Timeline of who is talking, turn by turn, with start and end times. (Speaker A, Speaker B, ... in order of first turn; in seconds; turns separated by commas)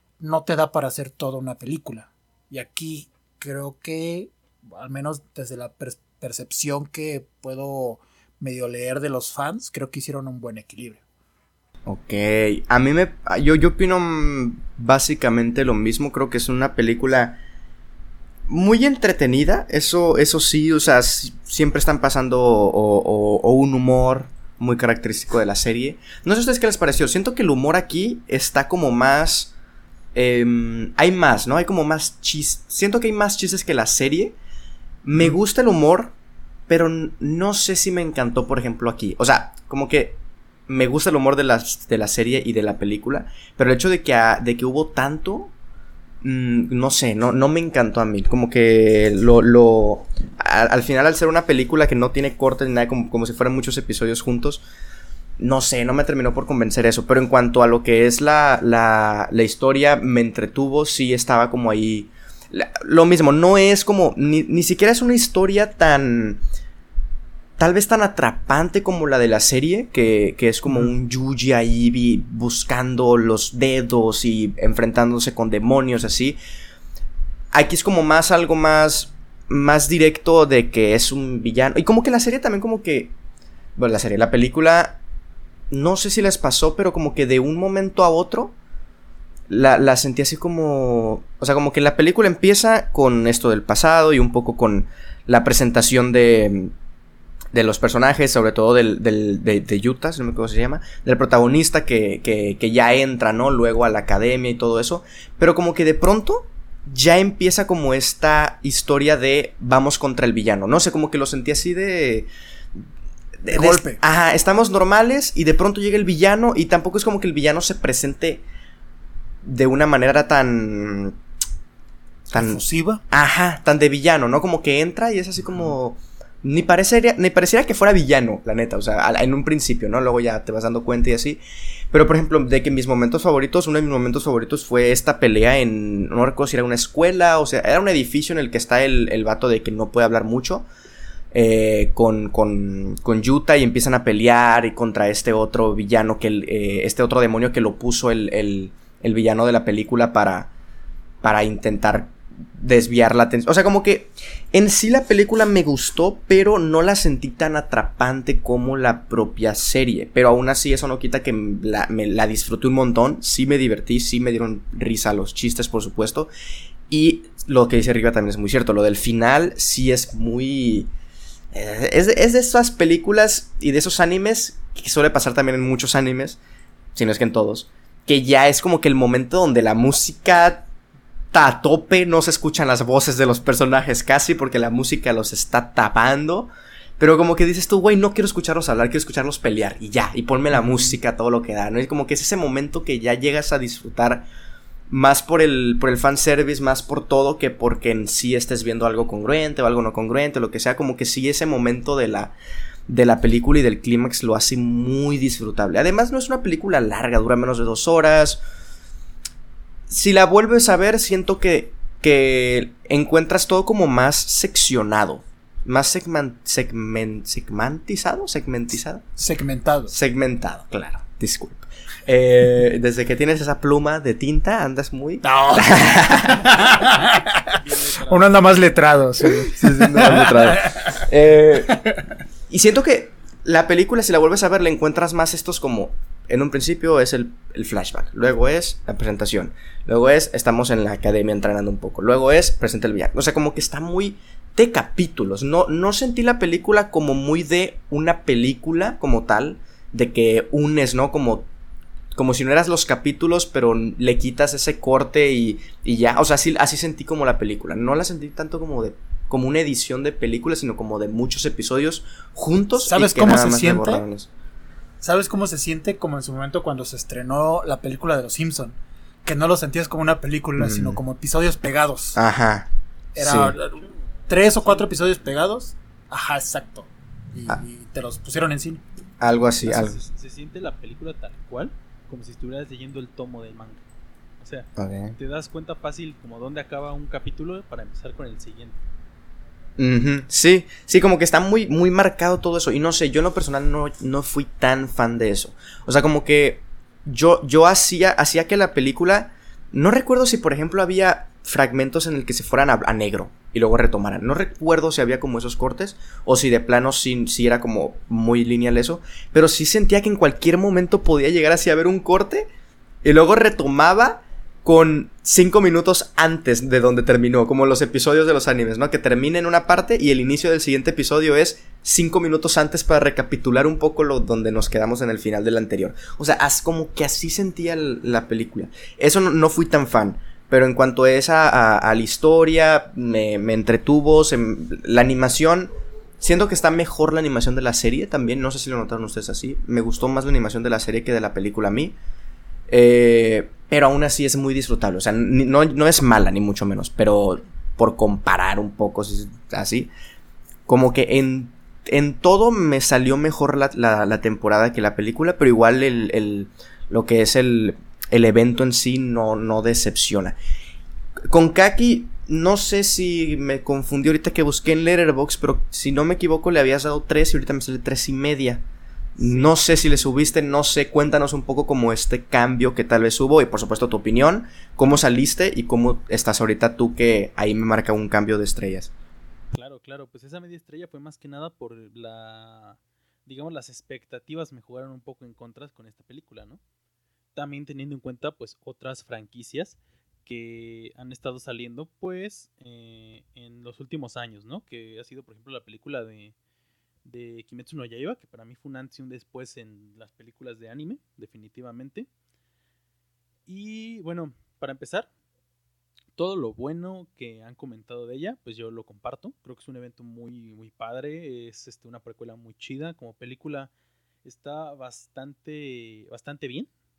Speaker A: 0.2-11.0, Speaker B: 11.9-17.4, Speaker B: 18.5-29.5, Speaker B: 30.1-34.4, Speaker B: 35.0-36.1, Speaker B: 36.7-45.5, Speaker B: 46.2-54.6, Speaker B: 55.4-66.4, Speaker B: 67.6-76.4, Speaker B: 77.5-83.1, Speaker B: 83.8-85.0, Speaker B: 85.7-88.5, Speaker B: 89.5-96.7, Speaker B: 97.5-112.3, Speaker B: 113.4-118.4, Speaker A: 113.5-114.0, Speaker B: 119.4-121.2, Speaker B: 122.3-122.6, Speaker A: 122.3-123.0, Speaker B: 123.1-131.4, Speaker B: 131.9-140.7, Speaker B: 141.3-150.5, Speaker B: 151.2-166.3, Speaker B: 166.9-170.9, Speaker B: 171.5-176.4, Speaker B: 176.9-180.7, Speaker B: 181.3-194.3, Speaker B: 194.9-202.3, Speaker B: 202.9-208.4, Speaker B: 209.9-219.0, Speaker A: 219.2-219.9, Speaker B: 219.9-226.4, Speaker A: 225.2-230.6, Speaker C: 227.6-228.3, Speaker B: 229.5-231.9, Speaker B: 232.5-251.5, Speaker B: 252.1-264.3, Speaker A: 262.8-264.0, Speaker A: 265.0-272.2, Speaker B: 270.6-271.0, Speaker B: 272.1-273.5, Speaker A: 273.1-278.8, Speaker B: 279.2-280.0, Speaker C: 279.7-283.8, Speaker C: 284.4-288.8, Speaker B: 284.8-285.1, Speaker B: 289.8-312.5, Speaker B: 313.0-342.0, Speaker B: 342.7-349.9, Speaker B: 350.7-360.4, Speaker B: 361.3-368.6, Speaker B: 369.2-378.9, Speaker C: 379.5-386.6, Speaker C: 387.4-396.3, Speaker C: 397.0-402.1, Speaker C: 403.5-405.1, Speaker C: 406.1-413.7, Speaker C: 414.2-416.7